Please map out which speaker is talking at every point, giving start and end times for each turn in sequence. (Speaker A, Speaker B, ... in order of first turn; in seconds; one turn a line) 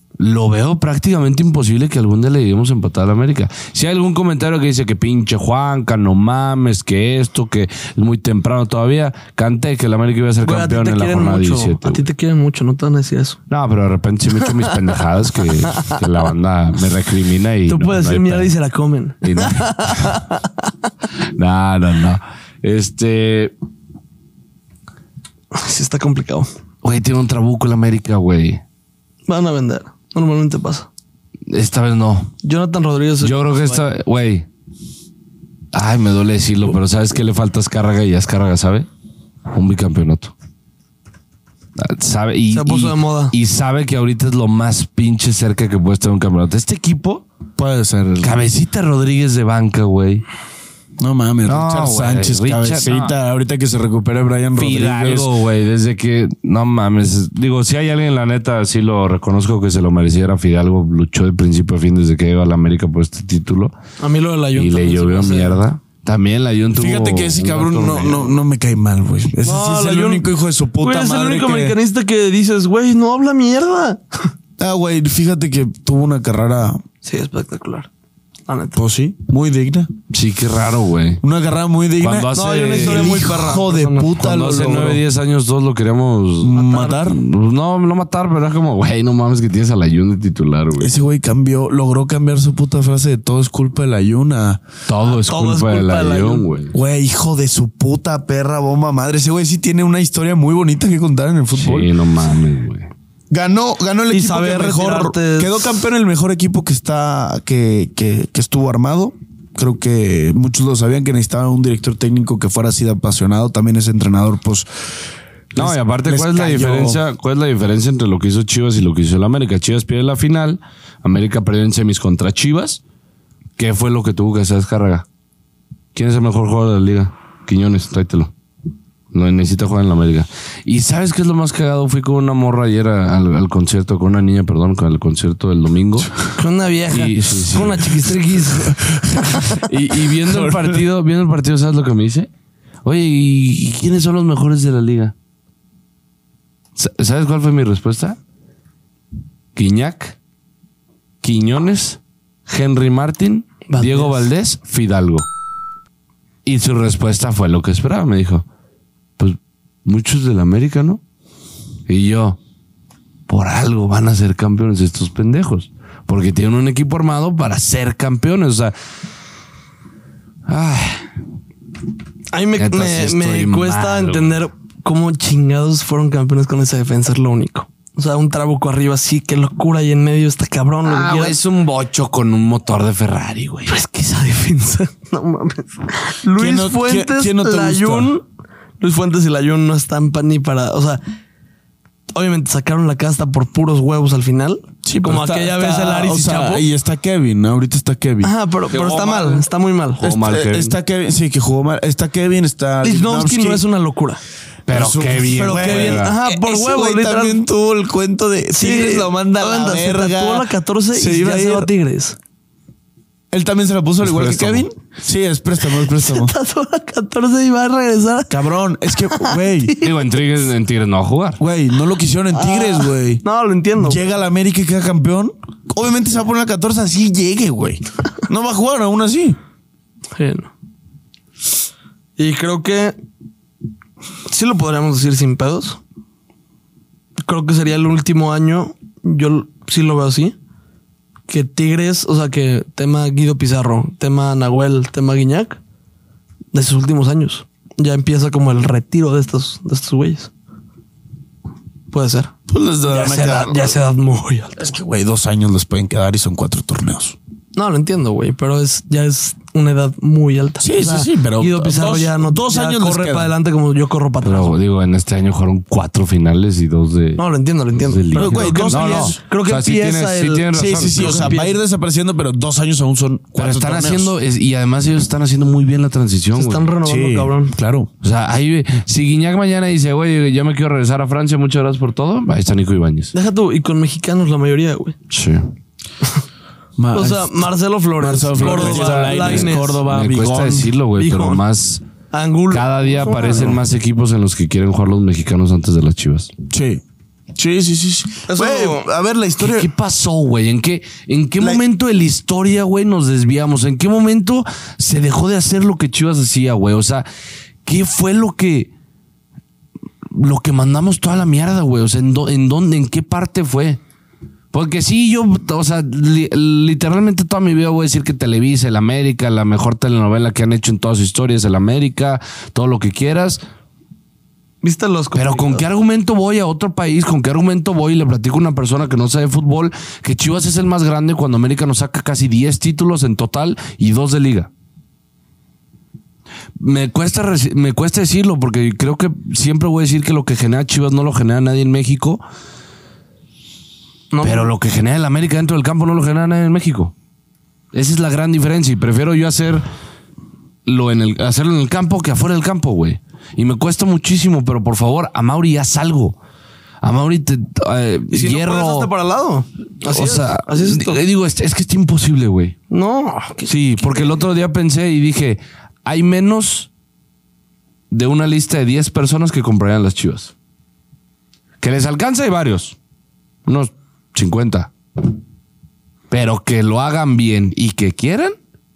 Speaker A: 0.2-12.0
Speaker B: 10.4-13.4
Speaker A: 13.5-18.5
Speaker B: 15.7-16.0
Speaker B: 17.7-20.7
Speaker A: 19.2-20.2
Speaker A: 21.3-23.5
Speaker B: 25.5-26.5
Speaker A: 26.8-28.6
Speaker B: 29.3-30.9
Speaker A: 31.5-32.3
Speaker B: 32.4-33.8
Speaker A: 33.2-34.5
Speaker A: 35.7-38.9
Speaker A: 39.5-40.3
Speaker A: 41.8-47.2
Speaker B: 42.5-43.3
Speaker C: 47.6-48.4
Speaker A: 48.2-50.2
Speaker C: 51.0-55.3
Speaker A: 51.5-53.1
Speaker A: 54.5-63.7
Speaker B: 64.0-65.6
Speaker A: 64.5-68.3
Speaker C: 66.7-71.8
Speaker B: 67.8-68.1
Speaker B: 69.4-70.3
Speaker B: 70.8-74.3
Speaker C: 74.6-76.8
Speaker B: 77.0-77.9
Speaker B: 78.5-78.8
Speaker C: 78.8-79.9
Speaker A: 80.1-81.2
Speaker C: 81.2-85.0
Speaker A: 82.0-83.3
Speaker B: 82.3-84.1
Speaker A: 84.1-90.9
Speaker C: 86.4-87.2
Speaker B: 86.5-87.0
Speaker C: 90.8-94.6
Speaker A: 94.9-96.7
Speaker B: 95.1-96.5
Speaker C: 96.7-101.9
Speaker A: 101.5-102.9
Speaker C: 103.3-114.7
Speaker B: 104.1-105.7
Speaker A: 115.5-122.8
Speaker C: 115.5-117.0
Speaker A: 123.6-125.0
Speaker A: 125.9-128.3
Speaker A: 129.1-136.2
Speaker B: 136.3-139.7
Speaker A: 136.9-138.1
Speaker C: 138.6-139.6
Speaker A: 139.6-142.3
Speaker C: 140.2-140.8
Speaker A: 142.8-145.1
Speaker A: 146.8-148.2
Speaker A: 149.5-150.1
Speaker A: 151.2-155.2
Speaker B: 153.7-154.3
Speaker A: 156.4-158.4
Speaker A: 159.2-161.0
Speaker A: 161.9-162.4
Speaker A: 163.3-168.7
Speaker A: 170.5-171.1
Speaker B: 172.3-181.4
Speaker A: 172.6-174.3
Speaker A: 180.8-183.8
Speaker B: 183.7-188.2
Speaker C: 186.3-188.1
Speaker B: 188.8-191.0
Speaker B: 192.1-196.6
Speaker C: 194.8-198.3
Speaker B: 198.2-200.0
Speaker A: 198.7-199.4
Speaker A: 200.0-200.7
Speaker C: 200.0-203.6
Speaker B: 202.8-204.2
Speaker A: 204.7-206.2
Speaker C: 204.7-211.7
Speaker B: 205.3-207.4
Speaker B: 208.5-212.2
Speaker C: 213.3-216.3
Speaker A: 214.0-214.7
Speaker B: 215.7-218.4
Speaker C: 218.3-219.8
Speaker B: 218.9-220.0
Speaker A: 219.8-221.4
Speaker C: 221.4-223.2
Speaker B: 222.3-224.0
Speaker C: 223.8-229.4
Speaker B: 230.1-230.5
Speaker B: 232.2-232.9
Speaker B: 234.3-235.8
Speaker B: 237.2-240.3
Speaker B: 241.3-245.6
Speaker B: 246.5-250.3
Speaker B: 251.9-252.3
Speaker C: 252.5-253.8
Speaker B: 252.9-254.6
Speaker C: 254.6-257.1
Speaker B: 257.5-264.6
Speaker C: 260.6-263.3
Speaker A: 264.2-271.4
Speaker B: 267.2-271.6
Speaker C: 268.1-269.2
Speaker C: 270.5-274.1
Speaker A: 273.4-276.7
Speaker B: 276.4-277.5
Speaker C: 276.8-277.9
Speaker A: 278.0-283.1
Speaker B: 283.1-284.9
Speaker A: 285.1-285.5
Speaker C: 286.8-287.5
Speaker B: 286.9-289.8
Speaker C: 288.0-290.7
Speaker A: 288.4-291.8
Speaker B: 291.0-291.4
Speaker B: 292.1-293.6
Speaker A: 292.5-296.3
Speaker C: 296.5-296.8
Speaker C: 297.3-299.7
Speaker B: 298.3-298.9
Speaker A: 299.4-307.1
Speaker A: 307.6-308.7
Speaker A: 310.1-313.8
Speaker A: 314.5-323.4
Speaker B: 324.6-325.6
Speaker A: 325.1-334.5
Speaker A: 336.6-342.2
Speaker B: 344.1-344.5
Speaker A: 344.2-346.9
Speaker A: 347.7-349.6
Speaker A: 350.6-356.1
Speaker A: 356.8-358.9
Speaker B: 358.1-361.0
Speaker A: 359.9-362.6
Speaker B: 362.7-364.2
Speaker A: 363.5-366.7
Speaker A: 367.9-370.3
Speaker A: 371.6-372.8
Speaker A: 373.4-374.7
Speaker A: 376.1-378.4